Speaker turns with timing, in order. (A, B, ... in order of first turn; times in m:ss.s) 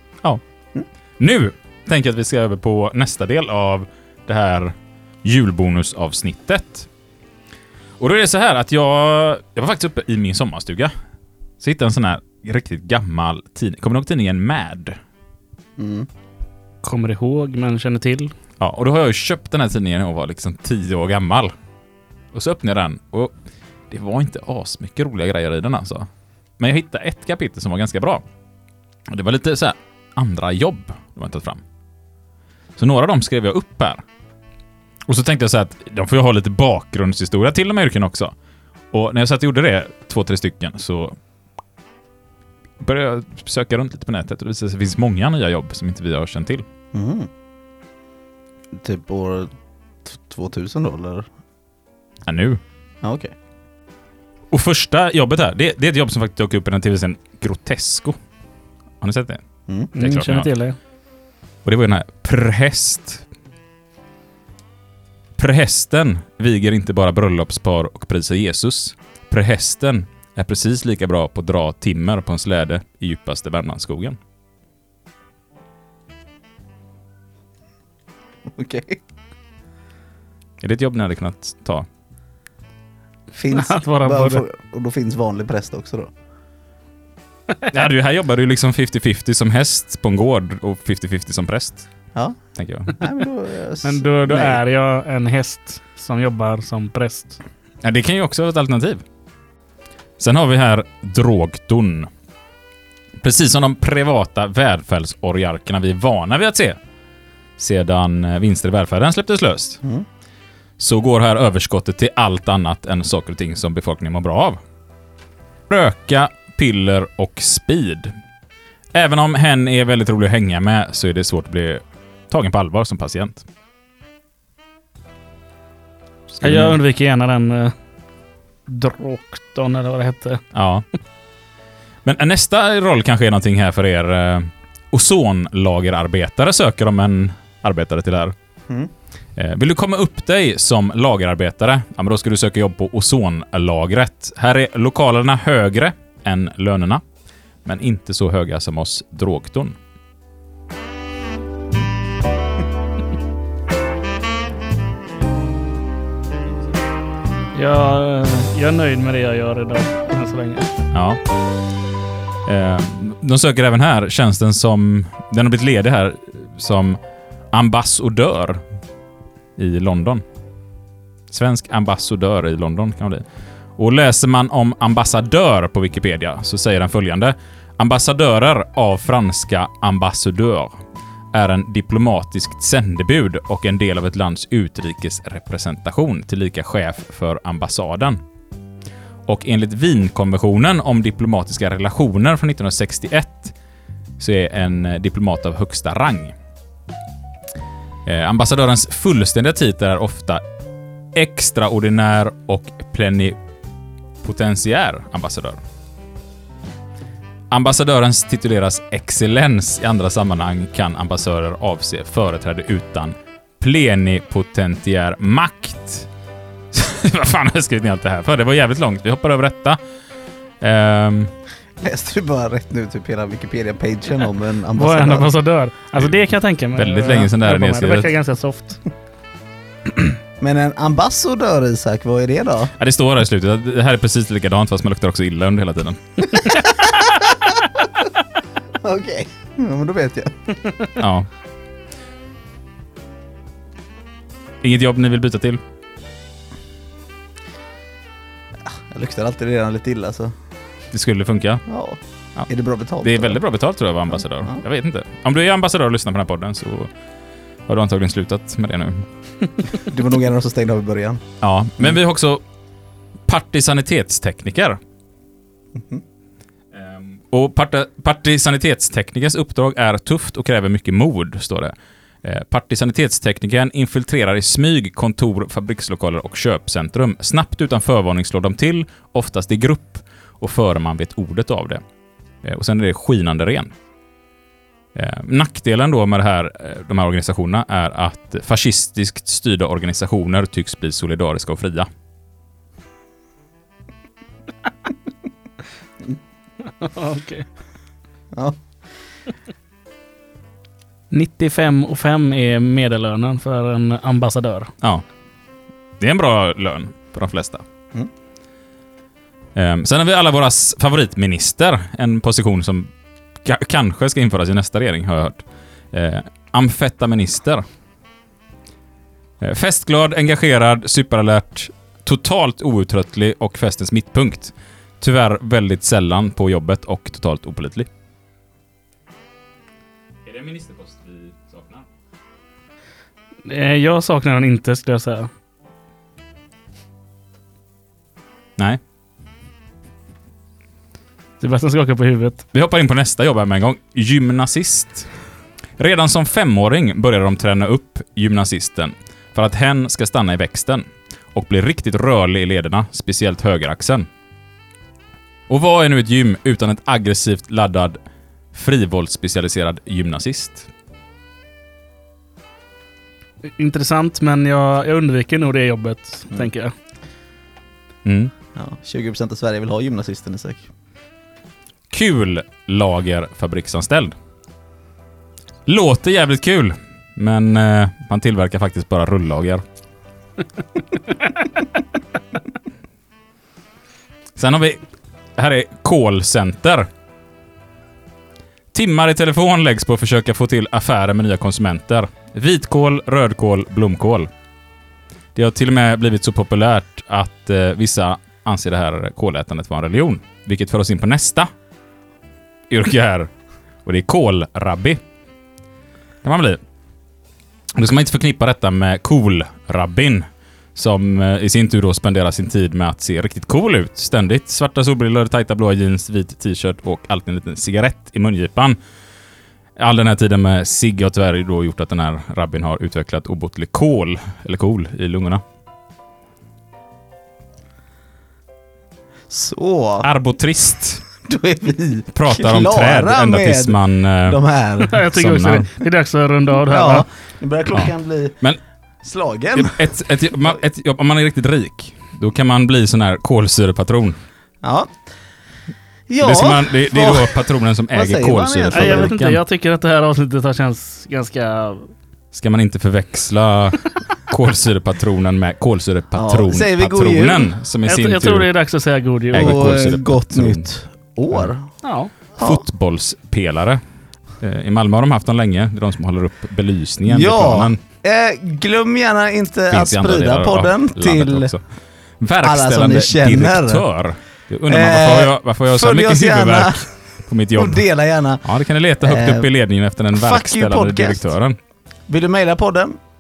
0:01.2-0:06.9 A
0:08.0-0:10.9 A
0:11.6-0:15.0 A
0:15.8-0:16.1 B
0:16.8-0:18.3 C
0:18.6-0:21.5 A
0:22.3-0:23.3 A
0:23.9-0:26.1 A
0:26.6-0:28.2 A
0:29.1-0:31.6 A
0:32.8-0:34.0 A
0:35.1-0:38.3 A
0:38.9-0:41.2 A
0:42.8-0:46.6 A
0:46.9-0:47.3 B
0:48.7-0:49.5 B
0:50.0-0:51.3 B
0:52.3-0:52.6 A
0:53.0-0:53.3 B
0:54.5-0:58.2 A
0:59.0-0:59.4 A
0:59.7-0:59.9 B
1:00.0-1:00.5 A
1:00.0-1:00.8 C
1:01.6-1:03.2 A
1:05.4-1:14.2 A
1:18.5-1:19.0 B
1:20.6-1:21.9 A
1:23.3-1:26.1 B
1:23.5-1:24.4 C
1:27.7-1:31.9 A
1:32.6-1:33.0 A
1:33.0-1:34.6 B
1:33.8-1:37.4 C
1:37.8-1:39.0 A
1:40.2-1:42.1 A
1:43.2-1:46.8 A
1:47.6-1:49.8 A
1:50.8-1:54.6 A
1:55.7-1:58.2 A
1:58.9-2:03.5 A
2:06.3-2:06.8 A
2:06.4-2:07.7 C
2:08.7-2:10.4 C
2:10.5-2:10.8 A
2:12.0-2:18.4 A
2:19.4-2:27.0 A
2:27.6-2:29.8 A
2:37.5-2:40.7 C
2:40.9-2:41.2 A
2:42.5-2:47.0 A
2:47.5-2:48.6 A
2:49.6-2:50.2 A
2:51.3-2:53.2 A
2:53.8-3:00.7 A
3:01.3-3:08.2 A
3:09.3-3:13.5 A
3:14.2-3:16.4 A
3:18.0-3:20.4 A
3:21.2-3:23.4 A
3:24.2-3:25.6 A
3:27.5-3:36.1 A
3:36.7-3:39.8 A
3:40.6-3:41.3 A
3:41.8-3:45.3 B
3:44.8-3:48.8 C
3:46.8-3:48.1 A
3:50.4-3:52.7 B
3:52.8-3:56.5 A
3:56.3-3:58.1 B
3:58.8-4:00.5 B
4:01.0-4:01.3 A
4:04.6-4:05.6 A
4:08.6-4:10.3 B
4:10.9-4:11.6 A
4:11.7-4:13.4 B
4:13.0-4:16.9 A
4:17.7-4:19.1 A
4:19.8-4:21.2 B
4:21.4-4:22.4 A
4:23.3-4:24.8 A
4:25.8-4:26.0 B
4:26.7-4:41.8 A
4:42.4-4:43.7 A
4:45.0-4:51.9 A
4:56.6-4:57.5 C
4:58.3-4:58.6 B
5:01.1-5:04.7 C
5:06.0-5:07.6 A
5:09.6-5:12.9 A
5:13.4-5:17.6 A
5:19.4-5:27.9 A
5:30.2-5:31.9 A
5:33.5-5:35.3 C
5:41.4-5:42.4 C
5:42.5-5:45.1 A
5:45.8-5:54.1 A
5:55.5-5:58.0 A
5:58.5-6:00.7 A
6:03.6-6:06.7 C
6:08.0-6:08.3 A
6:08.6-6:10.7 B
6:11.9-6:14.2 A
6:15.7-6:19.6 A
6:24.4-6:24.8 A
6:25.4-6:26.9 A
6:28.7-6:34.3 A
6:35.4-6:41.5 A
6:42.7-6:43.3 A
6:43.8-6:45.0 A
6:46.2-6:46.6 A
6:47.8-6:58.8 A
6:59.8-7:05.4 A
7:09.3-7:10.1 B
7:10.0-7:11.0 A
7:11.2-7:15.0 B
7:12.1-7:15.7 A
7:14.9-7:17.1 C
7:16.7-7:18.4 B
7:17.7-7:18.6 A
7:19.0-7:19.9 B
7:19.5-7:24.2 A
7:24.6-7:25.0 B
7:26.1-7:29.2 B
7:26.2-7:29.4 A
7:28.7-7:31.9 C
7:32.3-7:38.5 A
7:36.1-7:37.6 B
7:37.8-7:39.8 C
7:39.3-7:40.7 A
7:39.3-7:41.7 B
7:41.8-7:42.1 C
7:42.4-7:42.6 B
7:42.4-7:43.8 A
7:44.4-7:47.8 A
7:47.1-7:51.5 B
7:49.7-7:51.6 A
7:52.2-7:57.8 A
7:52.4-7:53.8 B
7:54.7-7:56.9 B
7:57.5-7:58.4 B
7:58.4-8:01.6 A
7:59.0-7:59.5 B
8:00.1-8:01.3 B
8:02.1-8:03.0 B